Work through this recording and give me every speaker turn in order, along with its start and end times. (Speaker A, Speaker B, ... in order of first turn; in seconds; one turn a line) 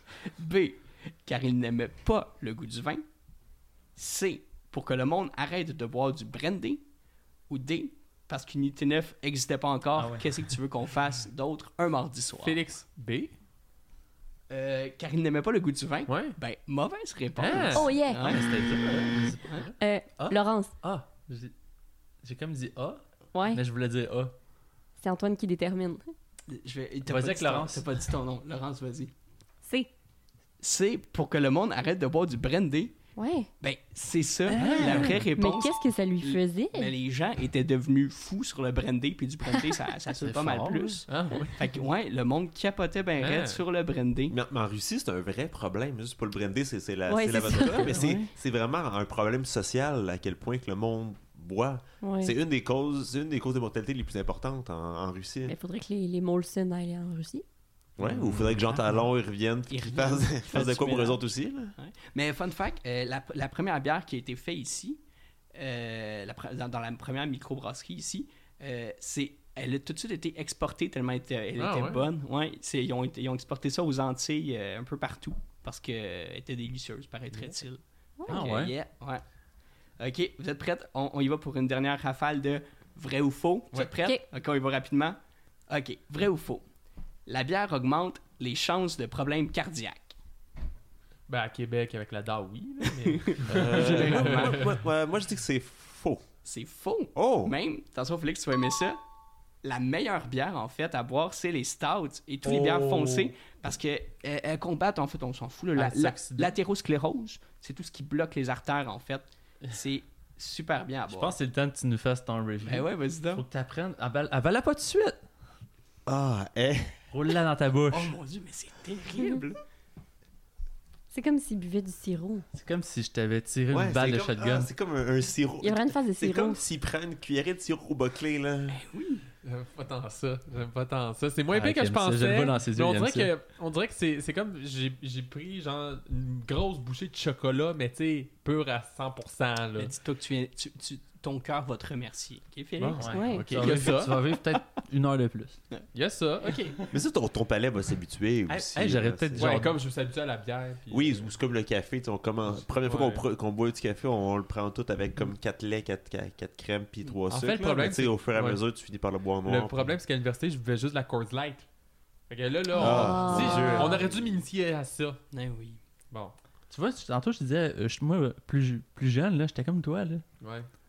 Speaker A: 0.2-3.0
Speaker A: 4.0-6.8
Speaker A: 7.5-12.6
Speaker B: 10.0-10.6
Speaker C: 12.4-13.3
Speaker A: 14.5-18.4
Speaker C: 16.1-16.4
Speaker C: 17.4-17.9
Speaker D: 17.7-18.4
Speaker B: 18.2-21.5
Speaker D: 19.8-20.7
Speaker B: 22.2-24.3
Speaker D: 23.3-23.6
Speaker D: 25.0-26.1
Speaker A: 26.5-29.1
Speaker B: 27.1-27.9
Speaker D: 29.6-29.9
Speaker A: 30.6-32.9
Speaker D: 33.2-33.5
Speaker A: 33.6-44.4
Speaker B: 34.5-35.2
Speaker D: 34.6-36.9
Speaker C: 34.7-35.1
Speaker B: 40.2-41.0
Speaker C: 41.1-41.7
Speaker C: 43.2-43.6
Speaker E: 44.3-55.5
Speaker D: 47.1-48.0
Speaker B: 47.8-48.3
Speaker D: 52.0-52.4
Speaker D: 55.5-57.4
Speaker E: 58.0-61.8
Speaker C: 58.0-58.5
Speaker A: 59.7-61.2
Speaker A: 61.8-65.0
Speaker A: 65.5-79.2
Speaker C: 71.6-72.1
Speaker D: 78.2-78.5
Speaker B: 78.3-78.7
Speaker A: 80.0-85.2
Speaker A: 85.7-86.7
Speaker A: 87.3-90.2
Speaker C: 91.3-94.8
Speaker A: 93.0-94.6
Speaker E: 93.5-96.2
Speaker A: 96.4-99.0
Speaker E: 97.2-97.5
Speaker A: 99.6-111.3
Speaker B: 102.4-103.3
Speaker B: 105.8-106.5
Speaker B: 111.1-115.2
Speaker A: 112.6-113.4
Speaker E: 116.1-117.0
Speaker B: 117.1-118.2
Speaker A: 117.9-119.6
Speaker D: 121.1-122.5
Speaker B: 122.5-124.7
Speaker E: 123.7-128.8
Speaker D: 125.6-126.6
Speaker A: 128.7-129.3
Speaker C: 129.4-139.9
Speaker B: 131.5-133.3
Speaker A: 139.8-144.0
Speaker C: 142.8-144.3
Speaker B: 142.9-145.7
Speaker D: 143.0-143.5
Speaker C: 145.9-146.8
Speaker E: 146.9-149.6
Speaker B: 148.5-149.8
Speaker C: 149.4-151.3
Speaker E: 150.9-160.0
Speaker C: 152.5-153.2
Speaker C: 157.3-158.6
Speaker C: 159.4-161.7
Speaker C: 162.3-165.2
Speaker D: 162.8-164.0
Speaker E: 162.8-164.3
Speaker A: 165.3-165.8
Speaker B: 166.7-170.2
Speaker C: 170.4-170.7